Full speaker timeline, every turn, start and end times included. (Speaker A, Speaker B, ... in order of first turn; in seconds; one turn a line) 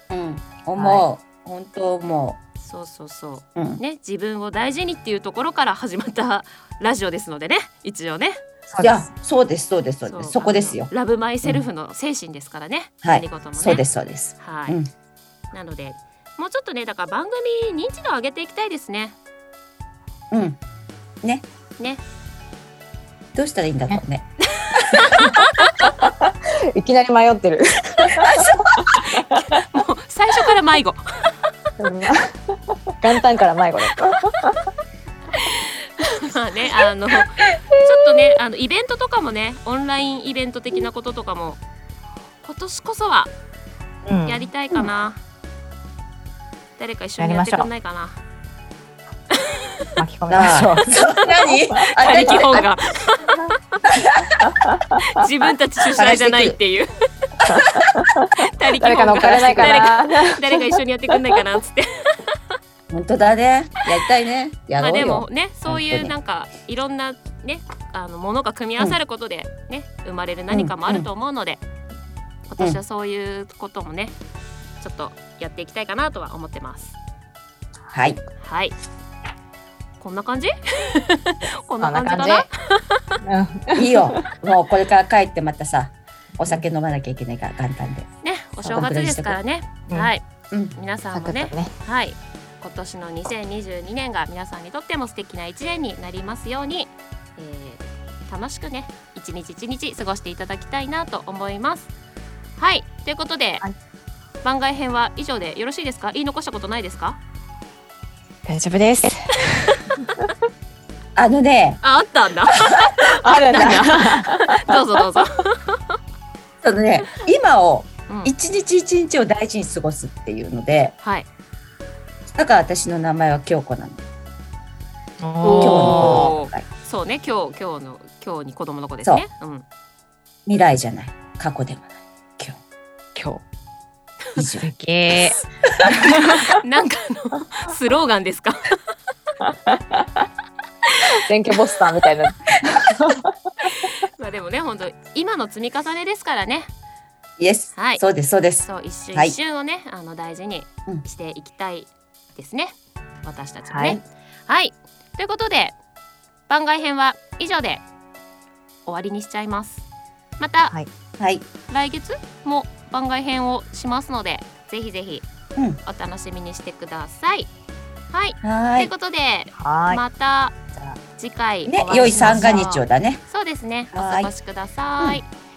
Speaker A: 0.1-2.4
Speaker B: 0.8-1.0
Speaker C: 2.6-8.4
Speaker A: 3.5-3.8
Speaker B: 8.7-9.1
Speaker A: 8.8-10.9
Speaker C: 10.1-13.9
Speaker A: 13.0-14.9
Speaker C: 14.4-14.8
Speaker C: 15.5-19.2
Speaker A: 20.3-20.6
Speaker A: 23.3-25.1
Speaker C: 24.5-26.0
Speaker B: 25.9-29.6
Speaker A: 28.2-28.7
Speaker C: 29.0-31.3
Speaker B: 31.8-32.1
Speaker B: 33.0-34.5
Speaker C: 35.3-41.6
Speaker C: 42.4-43.3
Speaker B: 44.1-44.4
Speaker C: 44.2-45.2
Speaker C: 46.8-48.2
Speaker B: 47.2-47.7
Speaker C: 49.3-50.0
Speaker B: 50.0-50.9
Speaker A: 50.3-52.6
Speaker C: 50.9-51.4
Speaker C: 52.0-53.8
Speaker C: 55.0-56.9
Speaker A: 55.9-56.6
Speaker B: 57.5-58.3
Speaker C: 58.4-62.3
Speaker B: 58.8-60.5
Speaker A: 62.9-66.1
Speaker C: 64.8-71.6
Speaker A: 70.5-71.1
Speaker C: 72.5-74.2
Speaker C: 74.8-77.0
Speaker A: 77.9-78.2
Speaker C: 78.4-78.7
Speaker C: 80.0-83.1
Speaker B: 81.8-82.5
Speaker B: 83.2-84.2
Speaker A: 83.8-88.1
Speaker C: 88.2-101.9
Speaker A: 88.6-89.4
Speaker B: 91.1-91.7
Speaker C: 102.6-103.6
Speaker C: 104.4-107.2
Speaker B: 108.5-109.8
Speaker C: 109.7-109.9
Speaker A: 111.2-111.8
Speaker C: 111.8-116.0
Speaker B: 113.2-114.8
Speaker A: 113.5-113.9
Speaker A: 116.6-120.9
Speaker C: 118.1-118.3
Speaker C: 121.0-121.3
Speaker A: 122.3-124.0
Speaker B: 125.2-126.3
Speaker C: 125.4-129.6
Speaker A: 125.6-126.6
Speaker A: 130.4-132.6
Speaker B: 133.1-133.4
Speaker A: 134.4-134.7
Speaker B: 134.6-135.3
Speaker C: 135.1-138.8
Speaker B: 136.0-136.5
Speaker B: 139.4-140.0
Speaker B: 141.3-143.2
Speaker C: 144.2-146.7
Speaker A: 147.4-149.4
Speaker C: 147.7-148.0
Speaker C: 148.6-155.8
Speaker B: 153.7-154.0
Speaker C: 156.5-157.8
Speaker C: 158.8-159.8
Speaker C: 160.4-160.7
Speaker A: 161.2-161.4
Speaker C: 161.7-165.2
Speaker A: 165.6-165.8
Speaker C: 165.8-167.5
Speaker C: 168.1-170.6
Speaker A: 168.4-168.9
Speaker B: 169.6-170.0
Speaker C: 171.2-175.3
Speaker A: 171.7-173.2
Speaker B: 172.1-172.6
Speaker A: 173.9-174.3